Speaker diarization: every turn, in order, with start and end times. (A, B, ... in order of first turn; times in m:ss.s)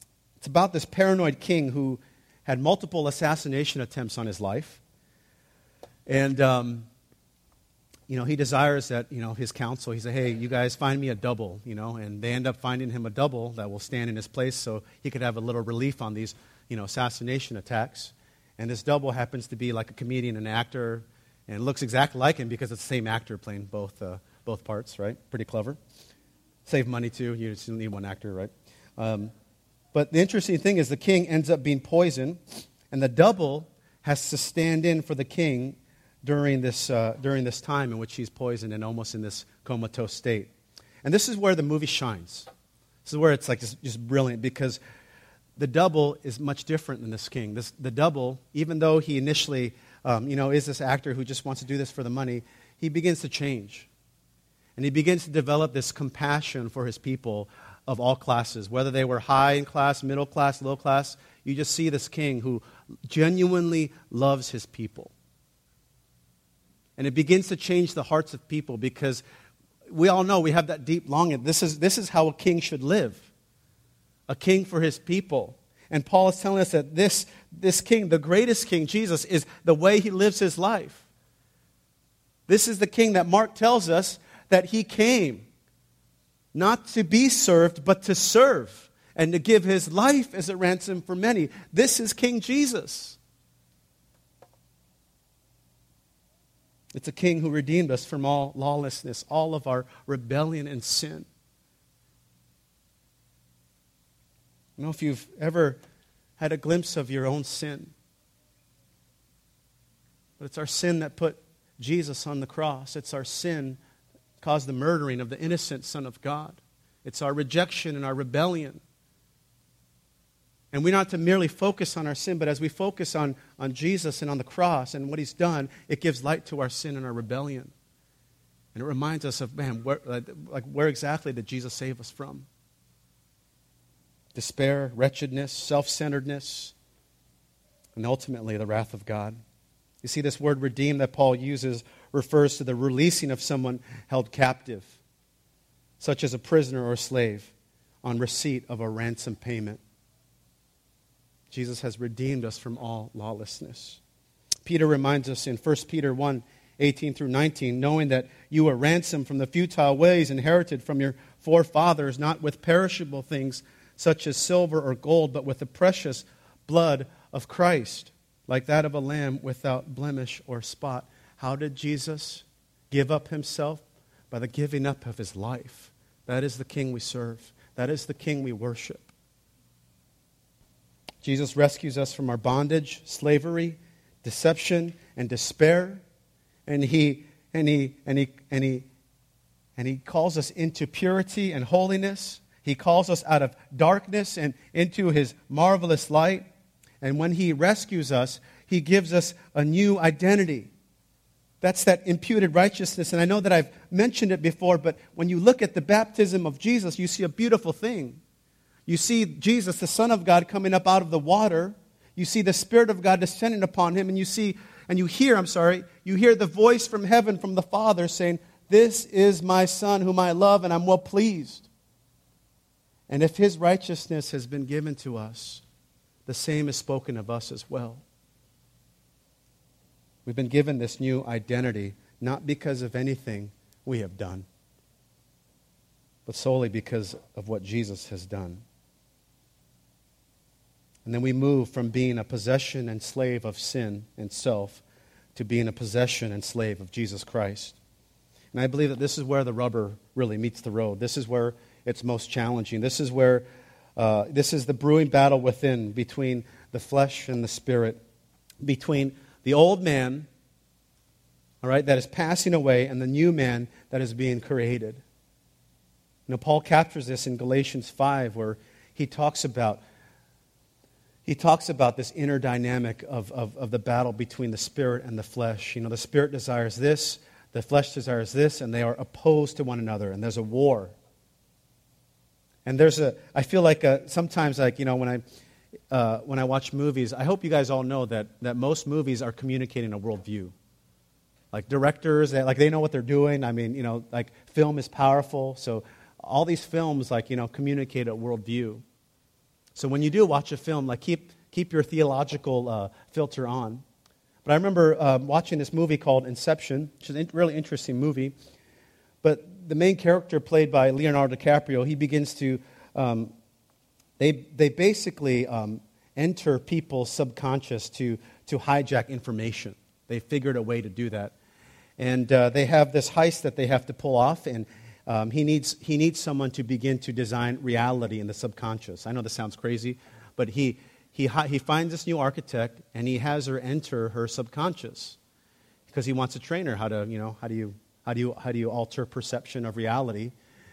0:00.4-0:04.8 A
0:06.1-0:06.9 A
0:08.1-0:25.8 A
0:26.7-0:29.3 A
0:29.9-0:40.5 A
0:41.0-0:42.5 A
0:43.0-0:44.8 A
0:45.6-0:53.9 A
0:54.8-1:05.1 A
1:07.0-1:09.2 A
1:09.9-1:13.3 A
1:14.3-1:21.1 A
1:22.5-1:25.5 A
1:26.5-1:33.2 A
1:36.9-1:41.3 A
1:44.8-1:45.8 A
1:46.4-1:47.9 A
1:50.4-1:53.8 A
1:54.4-1:58.8 A
2:00.7-2:07.7 A
2:08.7-2:12.5 A
2:14.4-2:16.7 A
2:18.0-2:19.4 A
2:20.0-2:25.0 A
2:26.0-2:27.5 A
2:28.0-2:29.8 A
2:31.5-2:34.0 A
2:34.6-2:59.1 A
3:01.2-3:06.0 A
3:06.7-3:08.9 A
3:09.8-3:16.5 A
3:17.0-3:20.7 A
3:21.6-3:28.2 A
3:28.9-3:41.7 A
3:43.1-3:45.6 A
3:46.3-3:48.0 A
3:50.3-3:54.5 A
3:56.3-3:58.6 A
4:01.0-4:04.8 A
4:05.4-4:07.8 A
4:08.5-4:13.4 A
4:14.0-4:18.0 A
4:18.6-4:20.3 A
4:21.6-4:25.0 A
4:26.3-4:29.8 A
4:31.3-4:41.0 A
4:42.6-4:45.2 A
4:45.9-4:50.6 A
4:51.5-4:58.8 A
4:59.8-5:03.8 A
5:04.4-5:08.3 A
5:09.2-5:13.3 A
5:14.2-5:21.3 A
5:22.0-5:35.2 A
5:35.9-5:40.3 A